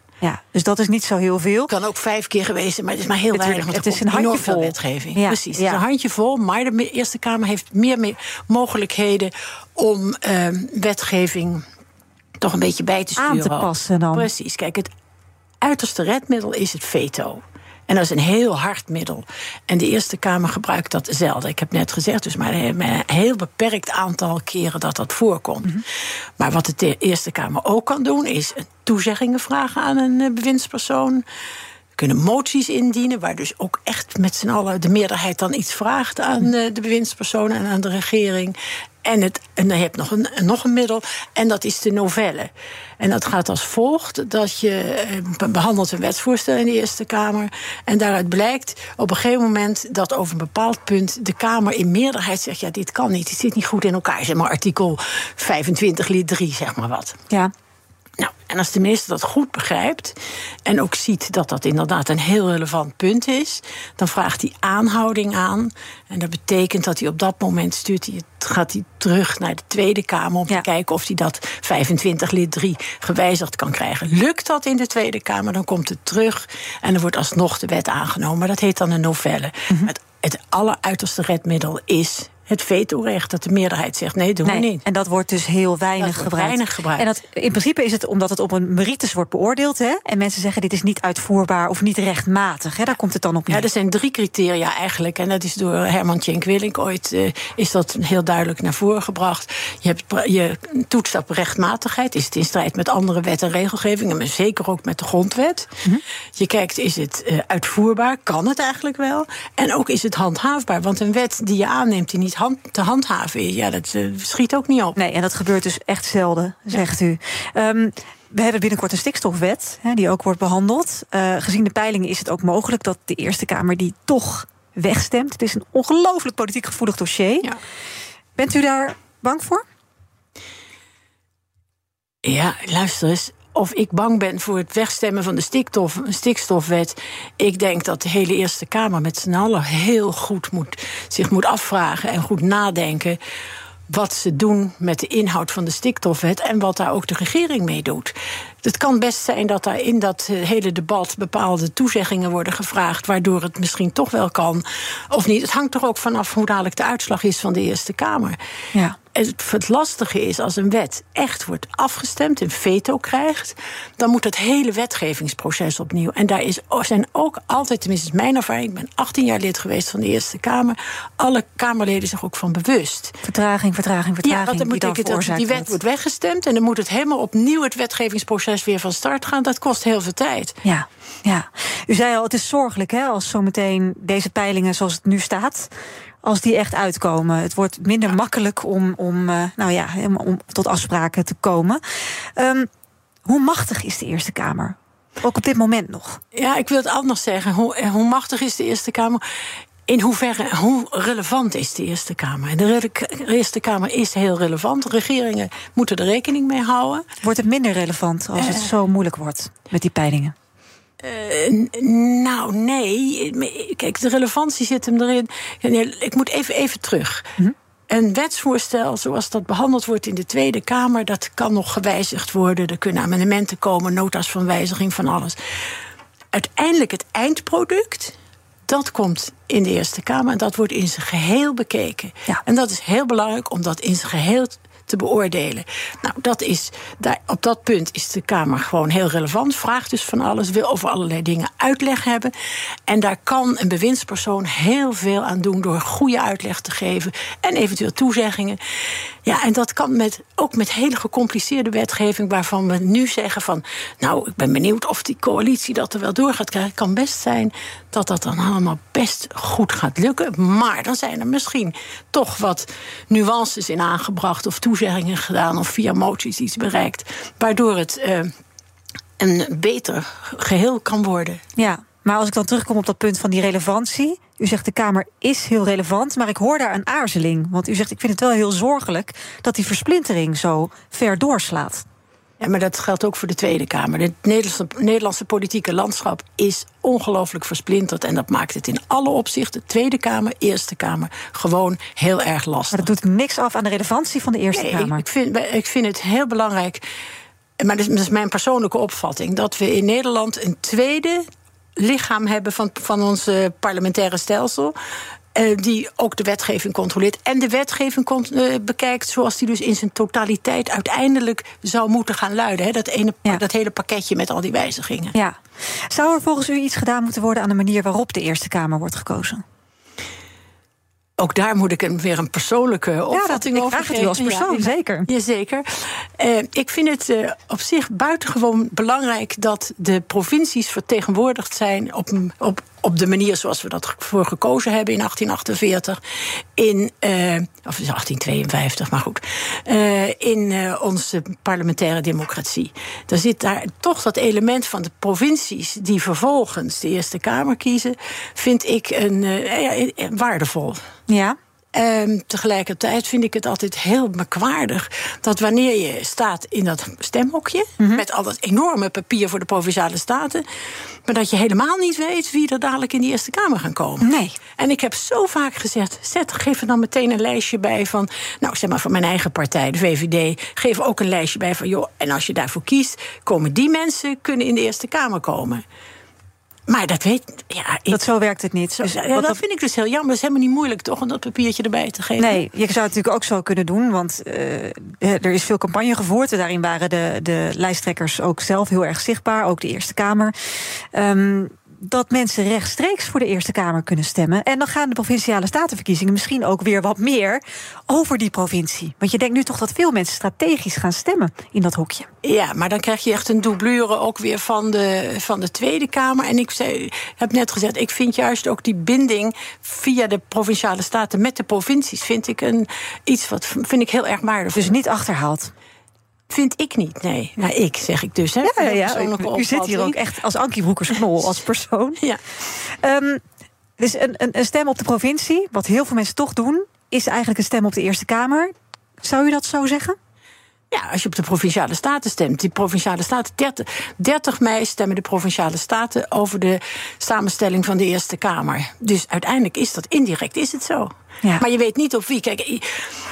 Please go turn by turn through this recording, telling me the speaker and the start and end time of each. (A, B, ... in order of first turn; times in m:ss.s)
0:00.2-0:01.7 A
0:01.7-0:11.6 B
0:03.3-0:05.8 A
0:12.4-0:14.9 B
0:13.2-0:14.3 A
0:15.6-0:25.8 B
0:26.4-0:31.2 B
0:31.9-0:57.2 B
0:58.2-1:24.8 B
1:24.4-1:33.6 A
1:26.0-1:27.1 B
1:33.5-1:45.7 B
1:46.4-1:55.0 B
1:55.0-2:07.5 A
2:08.4-2:09.6 A
2:12.2-2:23.2 B
2:23.9-2:38.4 B
2:39.1-2:53.2 B
2:53.2-2:55.8 A
2:54.2-3:00.6 B
3:00.6-3:05.7 A
3:06.2-3:11.8 A
3:12.4-3:12.7 A
3:13.2-3:16.2 A
3:16.3-3:19.2 B
3:19.9-3:27.0 B
3:27.2-3:30.3 A
3:28.4-3:28.6 B
3:31.0-3:37.3 B
3:37.9-3:45.4 B
3:46.3-3:48.2 B
3:48.7-4:02.3 B
4:02.9-4:08.6 B
4:09.2-4:28.3 B
4:29.2-4:31.4 B
4:31.6-4:41.8 A
4:42.4-4:52.9 B
4:52.7-4:55.0 A
4:54.5-4:56.8 B
4:57.6-5:01.2 B
5:01.8-5:04.7 B
5:05.3-5:15.1 B
5:15.9-5:19.4 A
5:21.2-5:36.0 B
5:23.1-5:25.1 A
5:36.6-5:50.8 B
5:51.1-5:51.4 A
5:51.7-6:00.4 B
6:01.0-6:15.6 B
6:04.0-6:04.4 A
6:16.7-6:18.0 B
6:17.9-6:19.4 A
6:18.8-6:22.4 B
6:22.2-6:42.1 A
6:42.2-6:54.8 B
6:54.5-6:55.5 A
6:56.3-7:00.0 B
6:58.4-7:02.0 A
7:02.6-7:03.2 A
7:03.8-7:10.0 A
7:10.7-7:22.6 B